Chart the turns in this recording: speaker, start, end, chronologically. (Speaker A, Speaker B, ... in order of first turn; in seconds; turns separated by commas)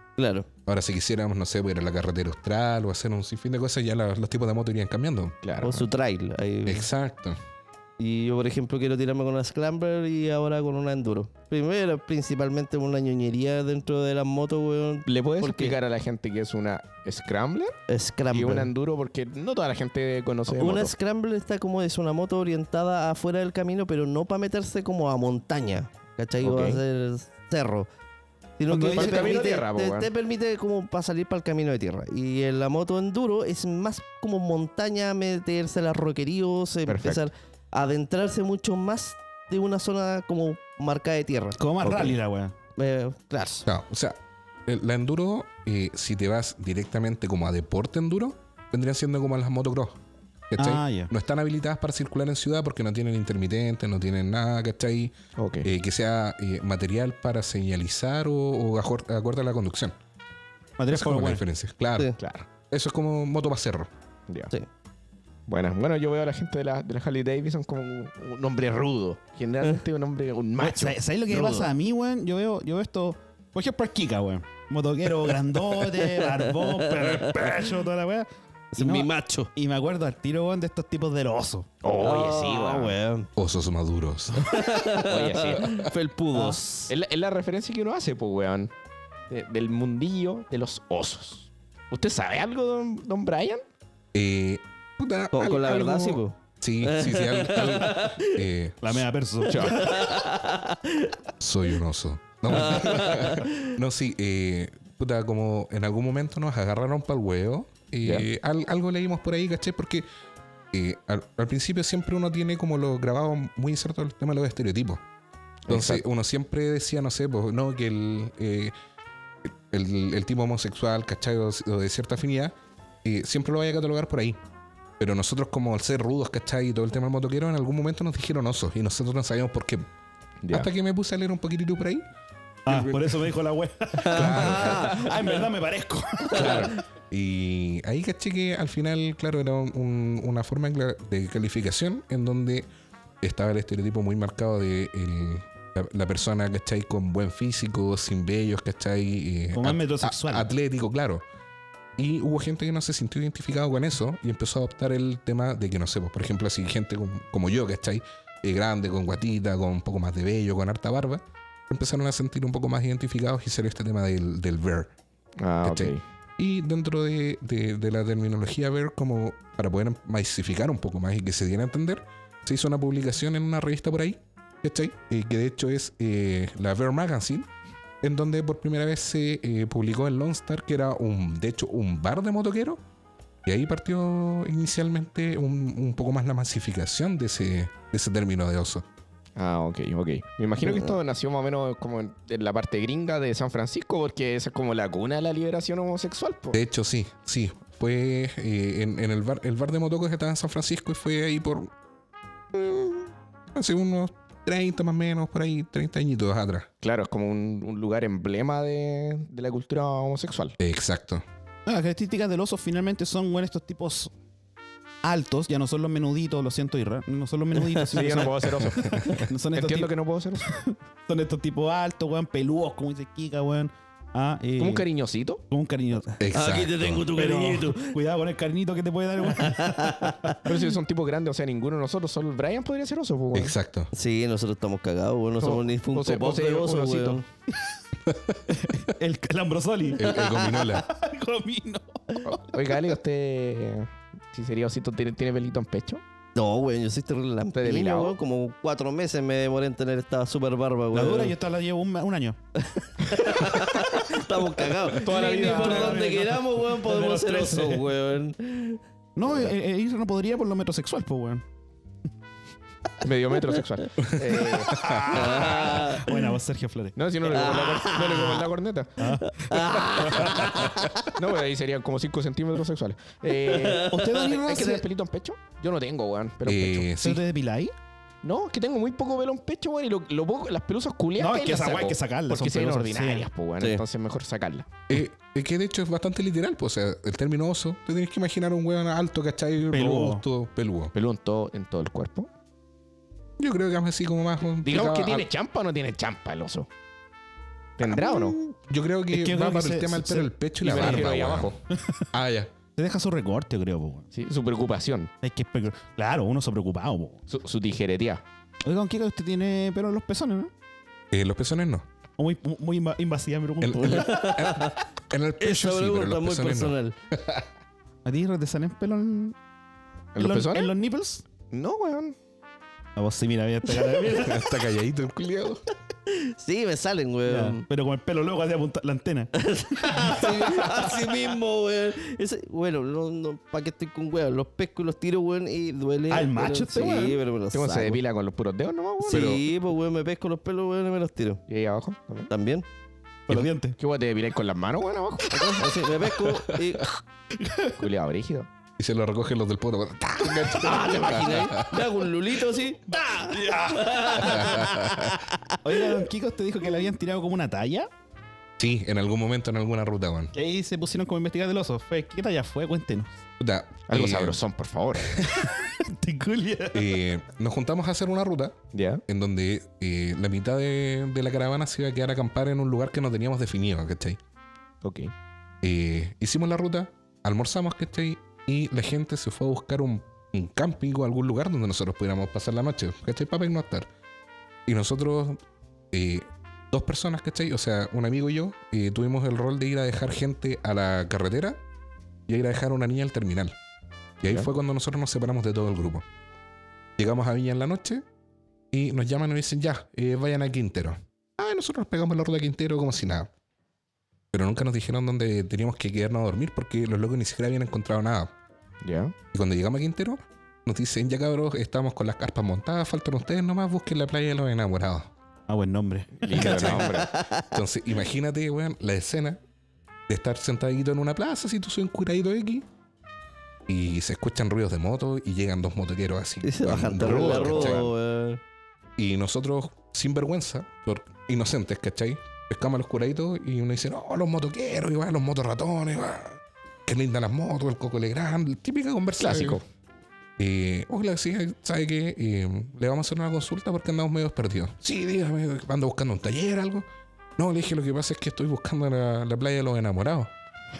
Speaker A: 0.2-0.5, Speaker B: 0.7-5.4, Speaker C: 5.4-5.9, Speaker A: 5.6-6.9, Speaker B: 6.6-7.4, Speaker A: 8.0-15.8, Speaker C: 15.1-17.8, Speaker A: 17.9-18.7, Speaker C: 18.3-20.9, Speaker A: 20.5-27.9, Speaker C: 26.4-26.8, Speaker A: 28.6-41.6, Speaker D: 28.7-29.4, Speaker C: 28.7-30.1, Speaker C: 36.9-37.2, Speaker D: 41.6-42.5, Speaker C: 41.8-42.1, Speaker A: 42.8-43.6, Speaker B: 43.7-50.0, Speaker B: 50.5-60.0, Speaker D: 50.6-51.1, Speaker C: 55.4-55.7, Speaker D: 60.8-61.4, Speaker B: 60.9-62.1, Speaker C: 62.2-62.5, Speaker B: 62.7-63.9, Speaker C: 65.5-71.0, Speaker D: 70.6-81.7, Speaker A: 71.3-71.6, Speaker A: 75.9-77.7, Speaker A: 78.7-79.5, Speaker C: 81.8-83.0, Speaker A: 82.0-83.3, Speaker B: 83.4-84.6, Speaker A: 84.5-86.9, Speaker C: 85.0-85.9, Speaker B: 85.6-85.9, Speaker D: 86.3-86.6, Speaker C: 86.9-88.7, Speaker C: 89.3-93.6, Speaker B: 94.1-99.0, Speaker A: 95.3-98.4, Speaker D: 98.8-100.2, Speaker C: 99.5-99.9, Speaker A: 99.5-101.1, Speaker B: 101.4-110.0, Speaker A: 102.5-103.7, Speaker B: 110.7-115.0, Speaker C: 115.7-116.0, Speaker B: 115.7-118.7, Speaker B: 119.5-124.4, Speaker B: 125.0-129.9, Speaker C: 130.4-130.7, Speaker B: 130.5-132.1, Speaker B: 132.7-133.3, Speaker D: 132.7-136.7, Speaker A: 134.0-135.4, Speaker B: 134.1-135.1, Speaker A: 136.3-136.7, Speaker B: 136.4-142.7, Speaker C: 136.4-136.7, Speaker B: 143.2-151.2, Speaker D: 149.5-150.5, Speaker B: 152.0-164.9, Speaker C: 165.4-166.0, Speaker B: 165.6-177.5, Speaker B: 178.0-182.8, Speaker B: 183.4-188.8, Speaker C: 189.4-196.6, Speaker B: 196.5-201.7, Speaker B: 202.5-206.7, Speaker C: 206.8-210.6, Speaker B: 210.6-211.2, Speaker D: 211.7-214.1, Speaker D: 215.0-224.8, Speaker C: 217.9-220.5, Speaker B: 218.8-219.2, Speaker C: 224.6-225.4, Speaker D: 225.5-226.2, Speaker B: 226.2-227.1, Speaker A: 226.3-227.9, Speaker D: 227.1-230.5, Speaker A: 229.3-230.3, Speaker C: 230.4-233.6, Speaker B: 233.3-233.9, Speaker A: 233.9-237.2, Speaker C: 235.4-237.2, Speaker B: 238.1-238.4, Speaker D: 238.5-242.4, Speaker B: 239.9-240.9, Speaker C: 242.2-246.0, Speaker A: 246.3-251.4, Speaker C: 247.6-248.1, Speaker D: 250.9-252.4, Speaker A: 253.0-258.8, Speaker D: 253.1-253.5, Speaker D: 254.9-257.9, Speaker C: 255.0-256.1, Speaker D: 259.2-261.4, Speaker C: 263.0-264.8, Speaker D: 264.7-267.0, Speaker B: 264.7-265.1, Speaker A: 265.1-266.3, Speaker C: 266.9-270.4, Speaker A: 267.2-268.5, Speaker D: 269.0-269.4, Speaker A: 269.3-271.1, Speaker D: 270.0-270.9, Speaker C: 271.1-276.9, Speaker A: 273.6-274.1, Speaker D: 273.8-274.9, Speaker B: 276.4-277.2, Speaker D: 277.0-277.7, Speaker C: 278.2-284.7, Speaker D: 281.2-283.3, Speaker B: 284.9-290.9, Speaker D: 289.7-290.2, Speaker C: 290.9-292.3, Speaker B: 293.4-295.3, Speaker C: 294.6-296.7, Speaker C: 297.8-298.4, Speaker B: 297.8-301.6, Speaker D: 299.1-300.3, Speaker C: 300.6-301.6, Speaker D: 301.8-302.0, Speaker B: 302.1-302.5, Speaker D: 302.8-304.1, Speaker C: 304.1-305.1, Speaker D: 305.2-307.2, Speaker C: 307.3-308.2, Speaker D: 308.6-310.5, Speaker B: 311.1-311.9, Speaker D: 312.2-314.3, Speaker B: 313.6-317.4, Speaker A: 313.8-314.8, Speaker A: 315.4-316.9, Speaker D: 318.1-319.4, Speaker C: 320.1-320.7, Speaker D: 320.2-321.2, Speaker C: 321.5-322.2, Speaker D: 322.9-324.4, Speaker B: 324.1-325.6, Speaker A: 326.1-327.6, Speaker D: 327.3-330.9, Speaker A: 329.4-338.0, Speaker D: 336.1-337.2, Speaker C: 337.5-339.4, Speaker A: 339.0-341.4, Speaker B: 339.1-339.4, Speaker C: 341.5-342.3, Speaker A: 342.3-342.7, Speaker D: 343.3-343.8, Speaker C: 343.3-345.6, Speaker A: 345.3-346.9, Speaker D: 346.1-346.5, Speaker D: 347.4-347.8, Speaker C: 347.8-348.5, Speaker B: 348.8-351.9, Speaker A: 350.5-355.4, Speaker D: 352.9-354.6, Speaker B: 354.2-355.1, Speaker D: 355.6-357.9, Speaker B: 358.6-360.3, Speaker D: 360.3-363.2, Speaker B: 363.4-364.4, Speaker C: 363.9-365.2, Speaker D: 365.4-366.9, Speaker B: 366.7-368.6, Speaker C: 368.7-369.0, Speaker B: 369.1-374.2, Speaker C: 374.8-375.1, Speaker B: 375.6-383.9, Speaker B: 384.7-385.4, Speaker B: 385.9-391.6, Speaker B: 392.3-393.6, Speaker B: 394.2-396.1, Speaker B: 397.0-398.0, Speaker B: 398.7-403.3, Speaker B: 404.3-408.3, Speaker C: 408.8-409.1, Speaker B: 409.3-415.1, Speaker D: 415.5-416.6, Speaker C: 416.2-417.2, Speaker A: 416.4-417.4, Speaker B: 416.4-416.9, Speaker B: 417.4-419.4, Speaker B: 420.1-422.7, Speaker B: 423.7-427.9, Speaker A: 426.4-428.4, Speaker C: 427.0-427.9, Speaker B: 429.0-439.6, Speaker C: 439.2-439.6, Speaker B: 440.4-446.9, Speaker B: 447.4-450.3